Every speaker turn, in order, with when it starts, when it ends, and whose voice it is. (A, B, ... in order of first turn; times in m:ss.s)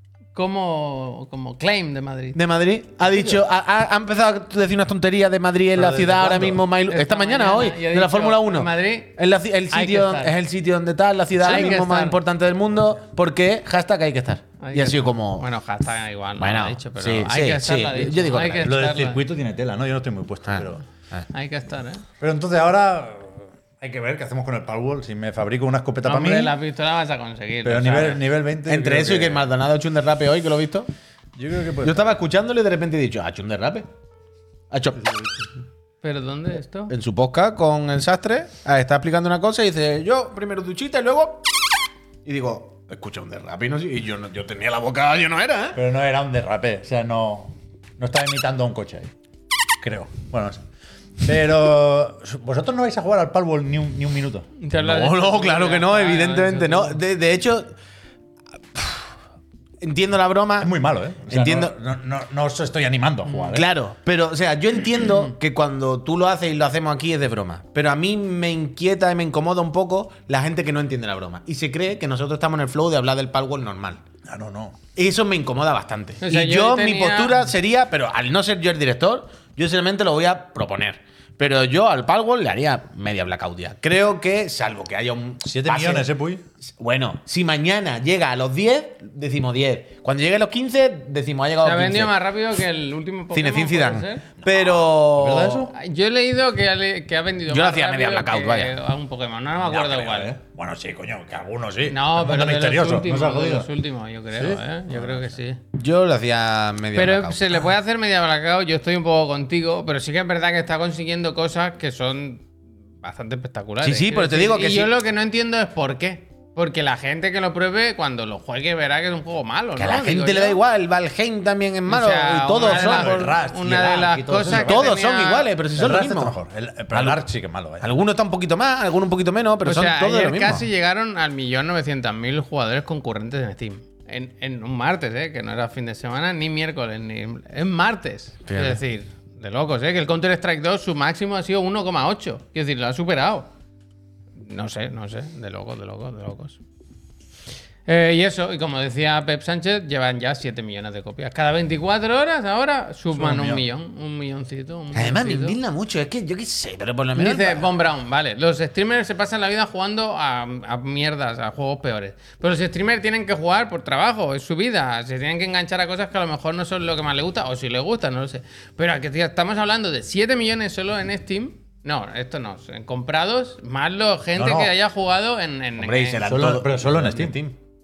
0:00.3-0:02.4 A
0:02.3-0:15.4 B
0:03.0-0:03.4 C
0:05.7-0:06.6 C
0:06.9-0:09.1 A
0:09.7-0:10.3 A
0:11.4-0:12.2 A
0:14.6-0:19.2 A
0:16.4-0:18.7 B
0:18.6-0:20.8 C
0:20.5-0:21.2 B
0:21.3-0:22.0 A
0:22.2-0:26.5 C
0:26.0-0:28.2 A
0:27.6-0:29.5 C
0:28.6-0:30.9 B
0:31.4-0:32.2 C
0:31.8-0:33.8 B
0:34.7-0:35.3 B
0:36.0-0:36.9 A
0:36.9-0:41.5 B
0:42.2-0:45.8 B
0:45.7-0:49.1 C
0:49.8-0:50.6 C
0:51.2-0:54.5 C
0:54.6-0:57.0 A
0:54.7-0:57.7 B
0:58.7-0:59.1 B
0:59.8-1:00.7 B
1:00.6-1:03.7 C
1:01.3-1:01.7 B
1:03.3-1:03.5 A
1:03.5-1:14.0 B
1:14.2-1:14.8 C
1:15.0-1:26.1 B
1:16.2-1:17.5 A
1:25.4-1:26.4 C
1:26.8-1:32.2 B
1:31.6-1:34.2 A
1:33.3-1:35.7 B
1:34.4-1:35.7 C
1:35.7-1:40.3 A
1:37.5-1:38.7 B
1:39.6-1:43.7 C
1:41.8-1:45.6 A
1:44.3-1:45.4 C
1:45.7-1:47.6 B
1:46.9-1:52.5 A
1:53.0-2:00.6 A
1:53.8-1:54.9 B
1:59.8-2:03.3 B
2:01.9-2:05.5 A
2:02.6-2:04.9 C
2:04.4-2:06.4 B
2:05.7-2:07.9 C
2:06.9-2:07.2 B
2:07.8-2:10.7 B
2:09.6-2:23.5 A
2:18.5-2:18.8 B
2:24.4-2:26.6 A
2:27.8-2:35.6 A
2:33.1-2:33.6 C
2:34.9-2:37.7 B
2:37.2-2:56.2 A
2:54.4-2:54.7 C
2:55.8-2:57.6 B
2:56.2-2:57.4 C